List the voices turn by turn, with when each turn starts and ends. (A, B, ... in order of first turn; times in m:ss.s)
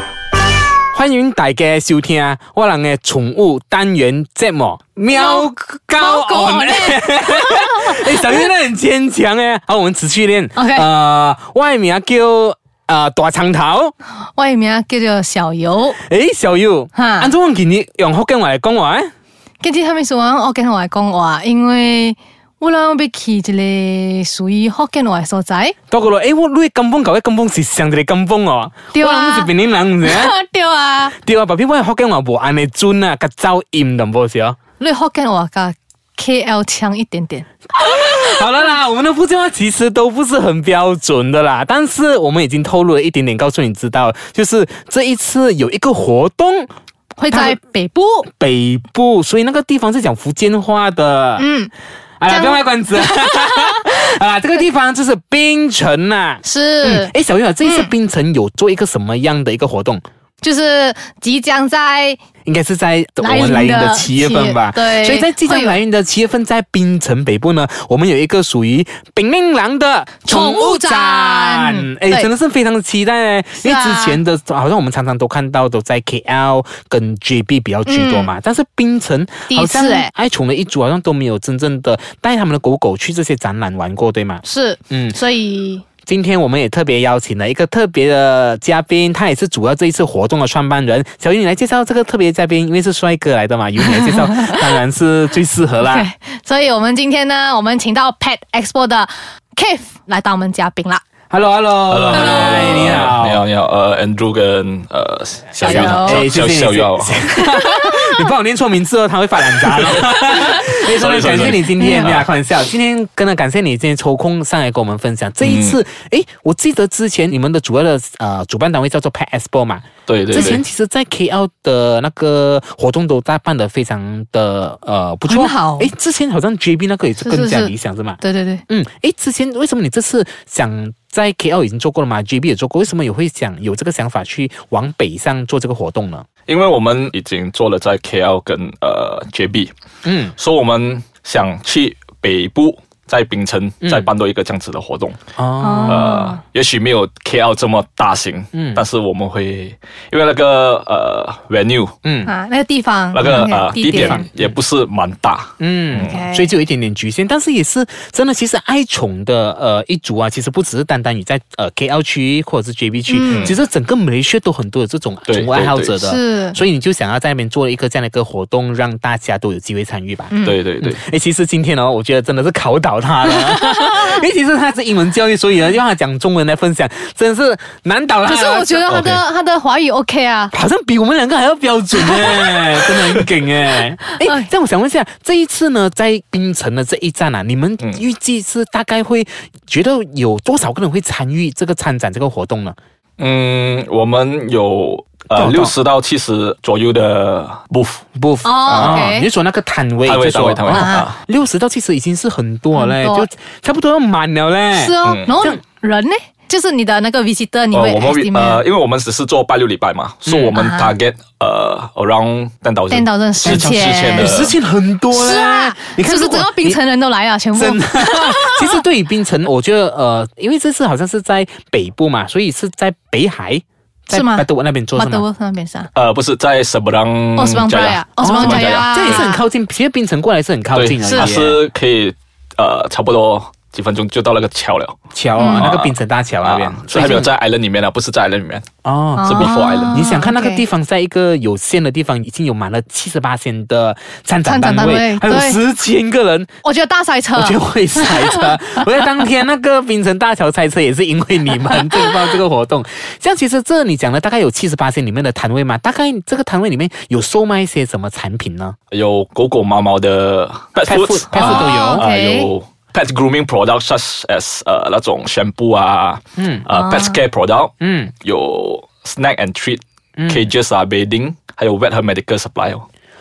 0:00.9-0:13.9 A
0:05.1-0:08.3 B
0:10.6-0:10.9 B
0:14.3-0:16.0 B
0:16.0-0:19.1 A
0:17.0-0:17.3 B
0:19.6-0:25.8 B
0:25.9-0:30.3 A
0:28.9-0:29.5 B
0:30.0-0:31.1 B
0:31.2-0:34.6 A
0:34.8-0:37.5 B
0:37.8-0:46.7 A
0:47.2-0:48.3 B
0:47.3-0:47.6 A
0:48.3-0:51.4 A
0:51.4-0:51.7 B
0:52.2-1:00.0 A
0:52.3-0:53.9 B
0:56.4-0:57.1 B
0:57.6-0:57.9 B
1:00.4-1:02.2 B
1:02.4-1:25.2 A
1:03.2-1:05.8 B
1:10.2-1:12.3 B
1:13.6-1:14.2 B
1:17.9-1:18.3 B
1:19.5-1:20.1 B
1:24.4-1:25.8 B
1:26.0-1:36.1 A
1:33.8-1:34.7 B
1:35.8-1:41.0 B
1:41.3-1:43.4 A
1:41.9-1:47.2 C
1:42.1-1:43.0 B
1:45.6-1:46.3 B
1:45.6-2:16.3 A
1:47.4-1:47.9 B
1:50.3-1:52.3 C
1:51.8-1:52.1 B
1:55.4-1:55.8 C
2:00.1-2:00.6 C
2:05.3-2:05.9 B
2:07.2-2:08.6 B
2:16.5-2:19.7 C
2:20.0-2:20.4 A
2:20.4-2:25.2 C
2:23.8-2:24.1 A
2:25.4-2:26.1 A
2:25.6-2:26.4 B
2:25.9-2:32.0 C
2:28.5-2:28.8 A
2:32.0-2:32.3 A
2:32.2-2:34.2 B
2:33.1-2:36.1 C
2:33.2-2:34.3 A
2:35.6-2:59.2 A
2:36.0-2:36.5 B
2:43.1-2:43.5 B
2:43.3-2:43.6 C
2:45.3-2:45.9 C
2:46.0-2:46.6 B
2:50.3-2:50.6 B
2:50.4-2:51.0 C
2:53.2-2:54.2 B
2:58.2-3:00.5 B
3:00.5-3:12.8 A
3:02.1-3:02.6 B
3:04.2-3:04.5 B
3:13.2-3:18.0 C
3:15.3-3:15.7 A
3:18.2-3:25.6 A
3:18.4-3:19.3 B
3:18.7-3:19.1 C
3:20.0-3:21.2 C
3:20.7-3:21.1 B
3:22.7-3:23.3 B
3:24.7-3:28.6 B
3:25.0-3:25.3 C
3:27.7-3:34.6 C
3:30.3-3:30.5 A
3:30.5-3:30.9 B
3:32.9-3:34.4 B
3:33.4-3:36.8 A
3:35.1-3:38.8 B
3:37.6-3:45.2 A
3:44.1-3:45.9 B
3:46.0-3:49.2 C
3:47.4-3:49.4 B
3:48.2-3:51.6 A
3:50.8-3:55.0 C
3:51.0-3:51.4 B
3:55.1-3:57.3 A
3:55.4-3:55.7 B
3:55.6-3:58.7 C
3:58.8-4:06.5 A
3:59.2-4:00.6 B
3:59.2-4:00.0 C
4:04.4-4:05.6 B
4:06.6-4:08.6 B
4:07.4-4:18.8 A
4:11.7-4:12.2 B
4:18.9-4:32.9 C
4:20.8-4:22.0 A
4:21.3-4:22.5 B
4:26.4-4:26.7 A
4:26.7-4:27.2 B
4:27.8-4:28.1 A
4:30.2-4:30.5 A